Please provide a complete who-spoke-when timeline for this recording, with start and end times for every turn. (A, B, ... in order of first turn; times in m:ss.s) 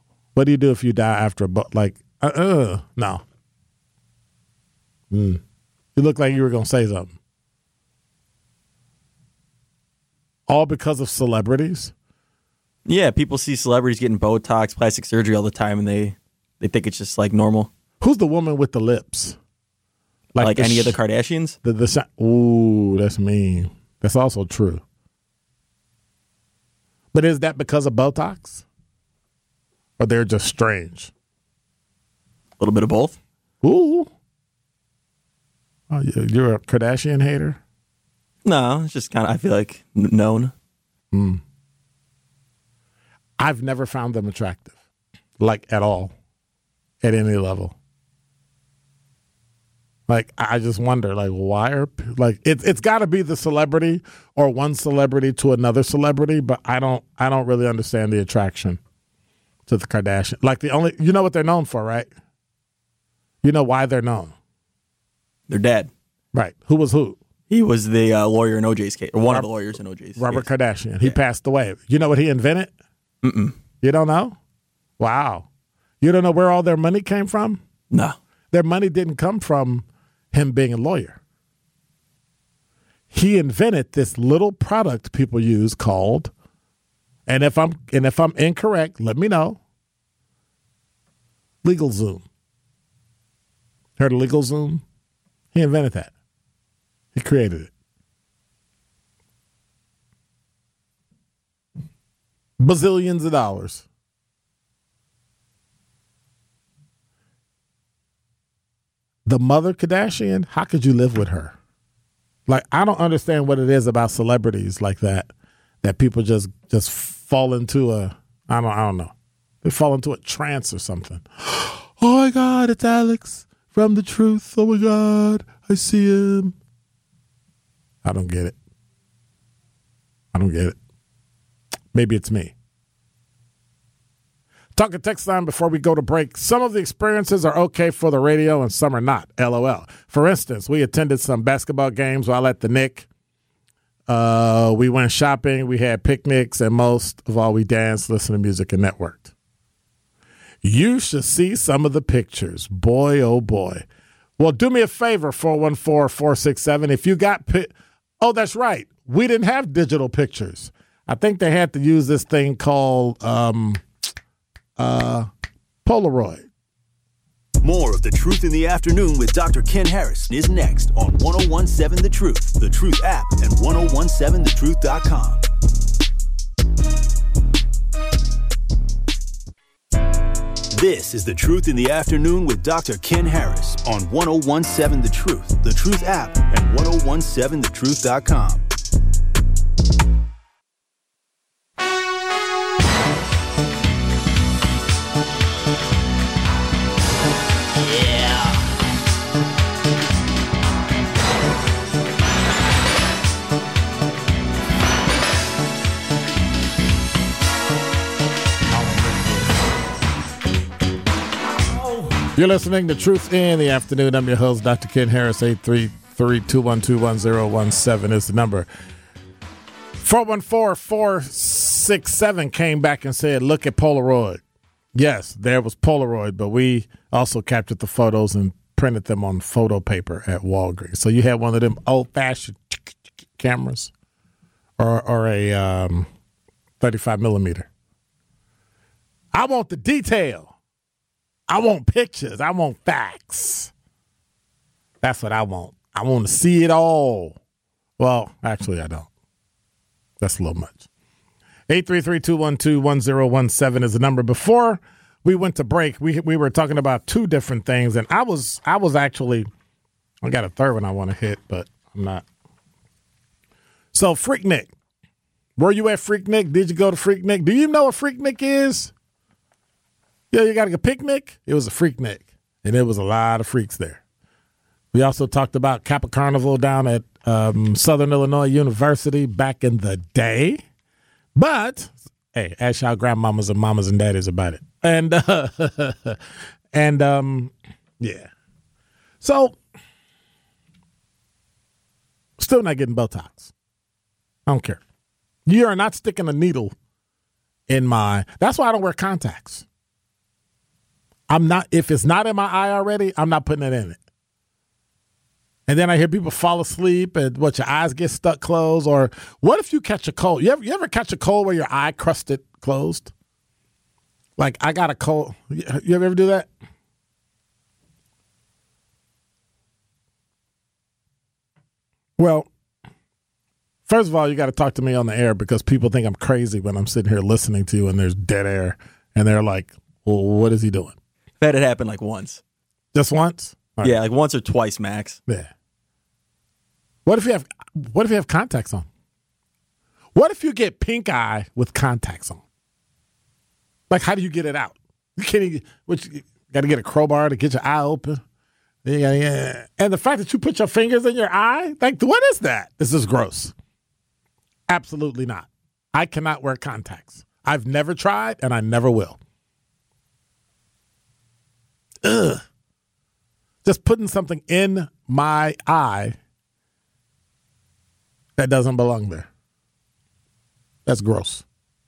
0:00.3-0:03.2 A
0:05.1-0:05.4 A
0:05.9-0:07.2 A
0:10.5-0:11.9 A
0:12.8-0:17.7 B
0:18.0-0:19.4 A
0:20.3-0:21.0 A
0:20.4-0:21.6 B
0:21.6-0:24.8 A
0:27.1-0:28.6 A
0:30.0-0:31.1 A
0:32.6-0:33.2 B
0:33.6-0:34.1 A
0:35.9-0:37.6 A
0:38.4-0:40.5 B
0:41.1-0:41.4 A
0:43.4-0:44.7 A
0:45.4-0:46.1 A
0:47.0-0:47.8 A
0:50.1-0:58.8 A
0:59.7-1:02.1 A
1:03.4-1:04.3 A
1:05.5-1:05.9 B
1:06.3-1:07.2 A
1:07.5-1:10.4 B
1:10.2-1:12.7 A
1:13.2-1:13.5 B
1:13.8-1:14.4 A
1:15.0-1:15.5 A
1:16.0-1:17.6 A
1:18.5-1:21.2 A
1:23.1-1:26.3 A
1:27.2-1:29.6 A
1:31.6-1:32.2 A
1:34.0-1:34.8 A
1:35.5-1:36.1 A
1:37.1-1:37.7 A
1:42.6-1:43.8 A
1:49.2-1:51.5 A
1:52.5-1:55.3 A
1:55.8-2:06.5 A
2:08.0-2:08.6 A
2:10.3-2:10.8 A
2:11.9-2:12.5 A
2:14.8-2:23.1 A
2:24.1-2:29.3 A
2:30.6-2:33.8 A
2:34.4-2:43.8 A
2:44.8-2:45.3 A
2:45.8-2:46.5 A
2:47.6-2:55.4 C
3:00.7-3:08.6 C
3:32.2-3:38.7 A
3:40.0-3:44.4 A
3:44.9-3:53.9 A
3:54.8-3:56.1 A
3:56.8-3:57.7 A
3:59.3-4:00.5 A
4:01.5-4:03.7 A
4:05.0-4:07.4 A
4:08.0-4:09.1 A
4:10.2-4:10.9 A
4:11.7-4:19.5 A
4:20.2-4:22.2 A
4:23.9-4:24.7 A
4:25.6-4:28.9 A
4:30.3-4:34.0 A
4:34.9-4:40.6 A
4:41.3-4:46.2 A
4:46.7-4:48.3 A
4:49.2-4:49.6 A
4:52.4-4:53.5 A
4:54.4-4:54.8 A
4:55.4-4:56.7 A
4:57.7-4:59.6 A
5:01.3-5:04.0 A
5:05.7-5:13.1 A
5:14.4-5:16.5 A
5:22.2-5:22.5 A
5:23.9-5:31.0 A
5:31.4-5:32.4 B
5:32.9-5:34.0 A
5:33.8-5:35.2 B
5:37.0-5:38.9 A
5:40.1-5:42.4 A
5:43.9-5:48.2 A
5:48.8-5:53.5 A
5:54.7-5:59.2 A
6:02.0-6:02.4 A
6:03.6-6:06.2 A
6:08.4-6:09.3 A
6:10.8-6:11.4 A